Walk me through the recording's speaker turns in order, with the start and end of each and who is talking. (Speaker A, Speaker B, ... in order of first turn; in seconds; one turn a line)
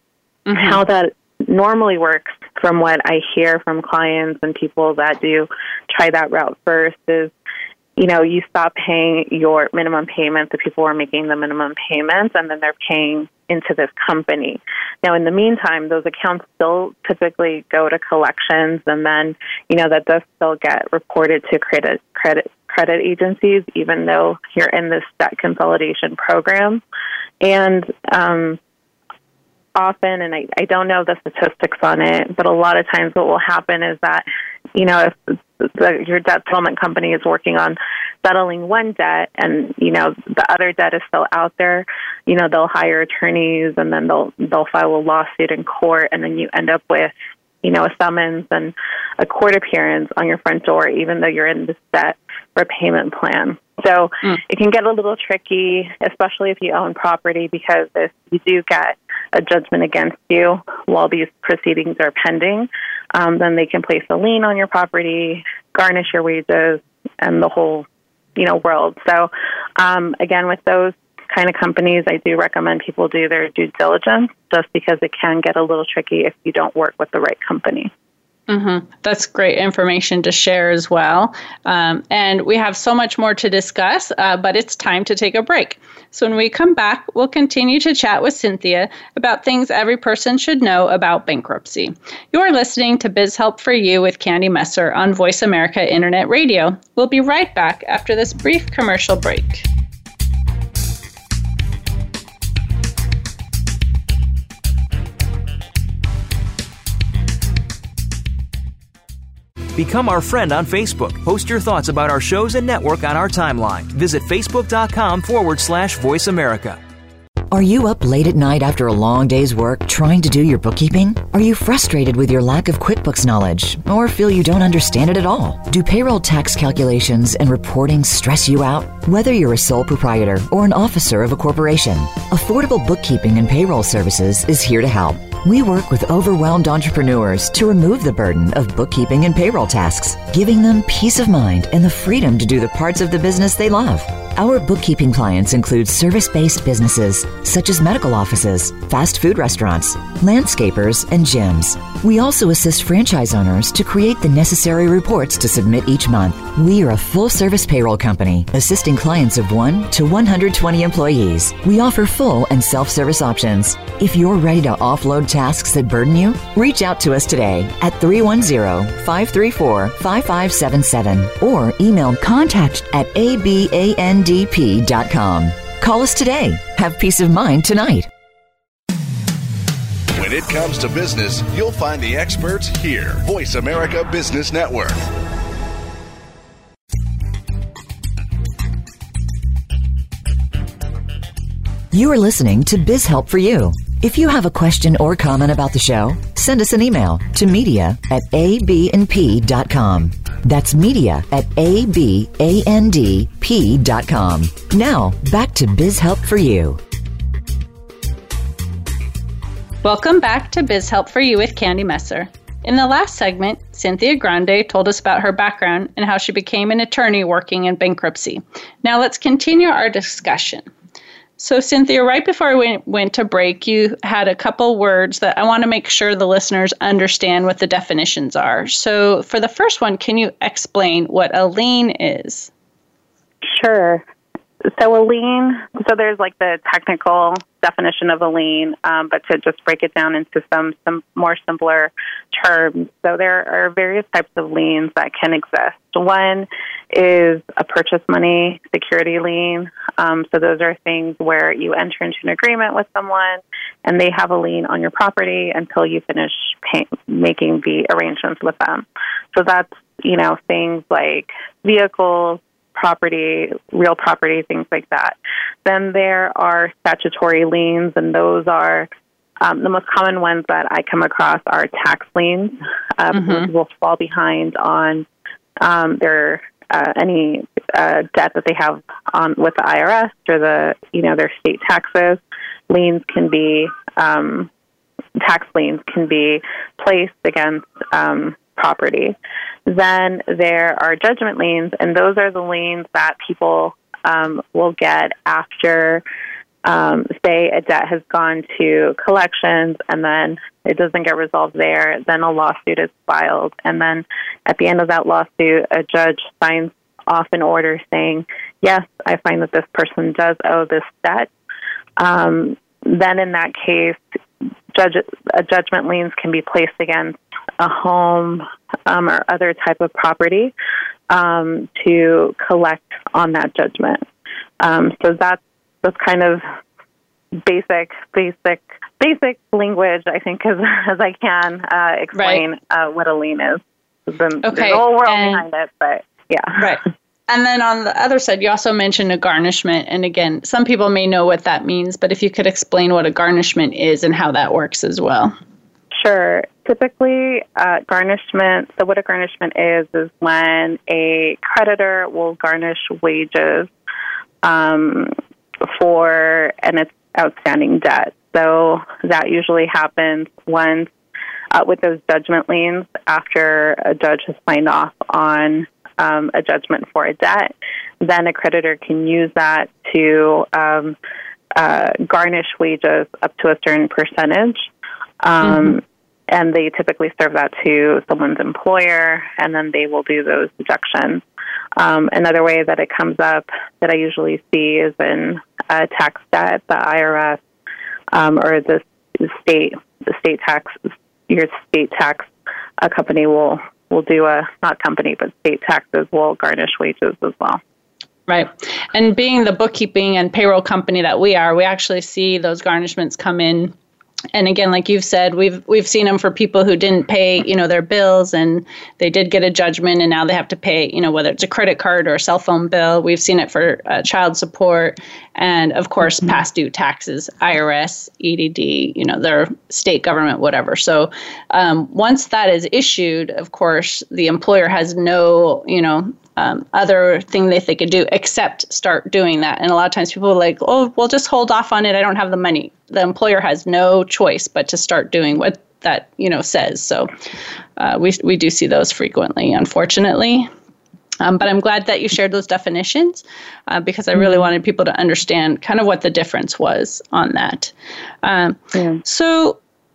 Speaker A: 0.5-0.8
Speaker B: 0.5-7.3
Speaker B: 8.0-26.8
Speaker B: 27.4-28.6
Speaker B: 29.8-77.9
Speaker A: 78.5-99.7
Speaker C: 109.8-116.8
Speaker D: 117.5-178.1
Speaker E: 180.2-185.0
Speaker D: 191.9-206.8
Speaker A: 209.8-220.7
Speaker A: 221.4-232.5
Speaker B: 233.5-234.0
Speaker B: 234.7-268.9
Speaker B: 269.4-275.1
Speaker A: 273.1-273.5
Speaker B: 275.6-284.5
Speaker B: 285.2-289.2
Speaker B: 289.7-296.0
Speaker B: 296.6-311.3
Speaker B: 312.0-314.2
Speaker B: 314.7-320.5
Speaker B: 321.1-324.1
Speaker B: 324.6-326.4
Speaker B: 327.5-336.7
Speaker A: 332.2-332.4
Speaker A: 334.4-335.4
Speaker A: 336.6-345.3
Speaker B: 346.0-353.7
Speaker B: 354.4-355.1
Speaker B: 355.7-360.9
Speaker B: 361.5-371.0
Speaker B: 371.6-374.7
Speaker B: 375.2-381.2
Speaker A: 375.4-375.8
Speaker B: 381.8-387.4
Speaker B: 388.1-392.3
Speaker B: 392.8-397.6
Speaker A: 398.3-403.7
Speaker A: 404.3-437.1
Speaker A: 437.8-440.5
Speaker A: 441.2-449.6
Speaker B: 444.2-444.4